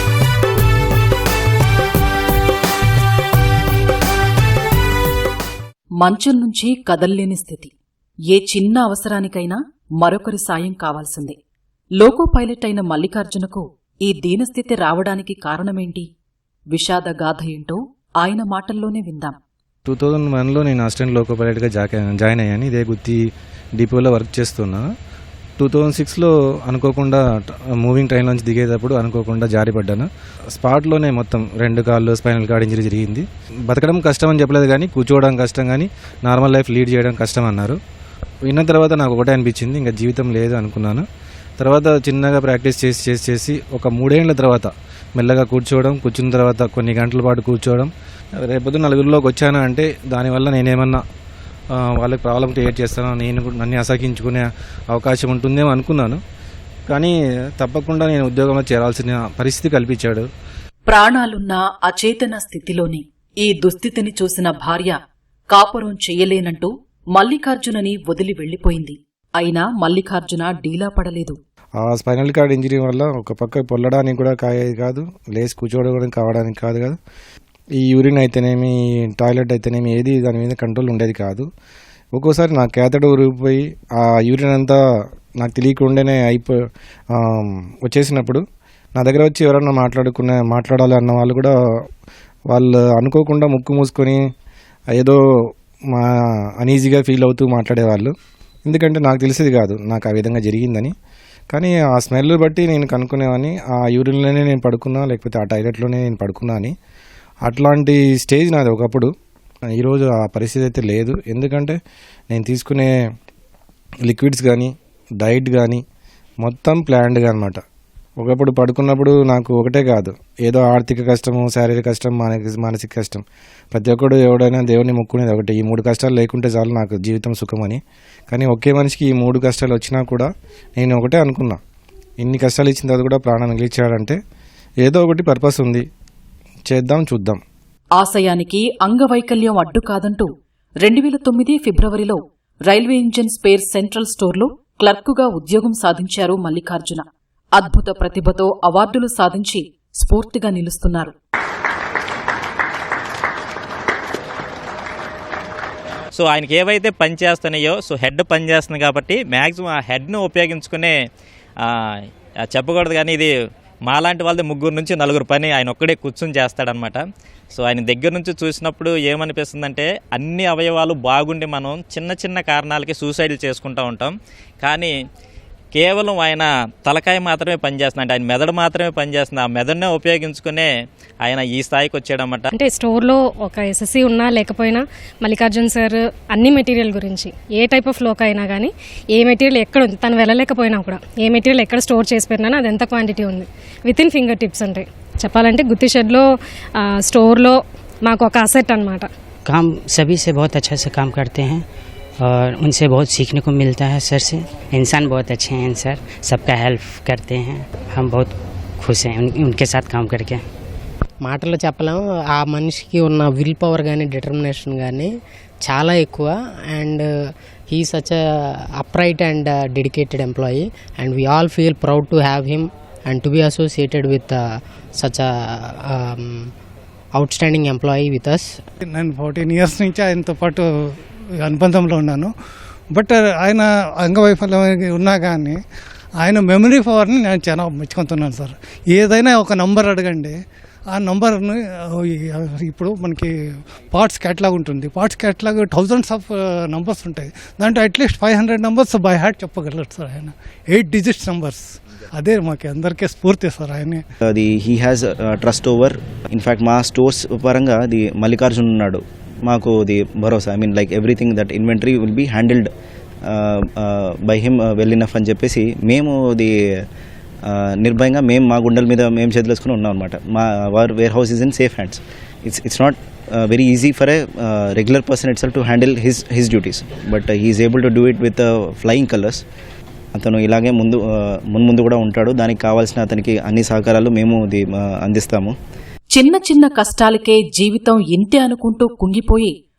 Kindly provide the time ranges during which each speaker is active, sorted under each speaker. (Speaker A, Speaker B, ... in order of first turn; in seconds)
Speaker A: 6.0-7.7, 8.3-11.4, 12.0-16.1, 16.7-19.4, 60.9-65.0, 65.5-71.4, 137.9-140.3, 140.8-147.0, 147.5-151.1, 286.1-289.5
Speaker B: 19.9-23.2, 23.8-24.8, 25.6-37.8, 38.4-41.0, 41.6-47.9, 48.4-51.0, 51.8-56.2, 56.9-60.2, 71.8-77.0, 77.8-81.5, 82.2-84.8, 85.4-86.6, 87.1-88.4, 89.0-91.5, 92.5-94.2, 94.9-95.2, 95.9-98.1, 98.7-100.9, 101.5-106.7, 107.4-109.1, 109.8-111.8, 112.3-112.9, 114.1-115.8, 116.4-117.6, 118.2-127.8, 128.3-131.6, 132.2-134.2, 134.8-135.8, 136.7-137.4
Speaker C: 156.1-160.9, 162.4-163.3, 163.8-174.9, 175.7-180.7, 181.2-182.5
Speaker D: 182.5-196.2, 197.0-199.1
Speaker E: 199.4-201.6, 202.2-210.4
Speaker F: 211.2-215.1, 215.6-217.1, 217.7-224.4, 225.0-226.5, 227.2-228.5
Speaker G: 228.9-230.7, 231.4-232.3, 232.9-235.6, 236.2-240.4, 240.9-243.3, 243.9-254.0
Speaker H: 254.3-262.7, 263.2-266.6, 267.4-279.4, 280.1-285.5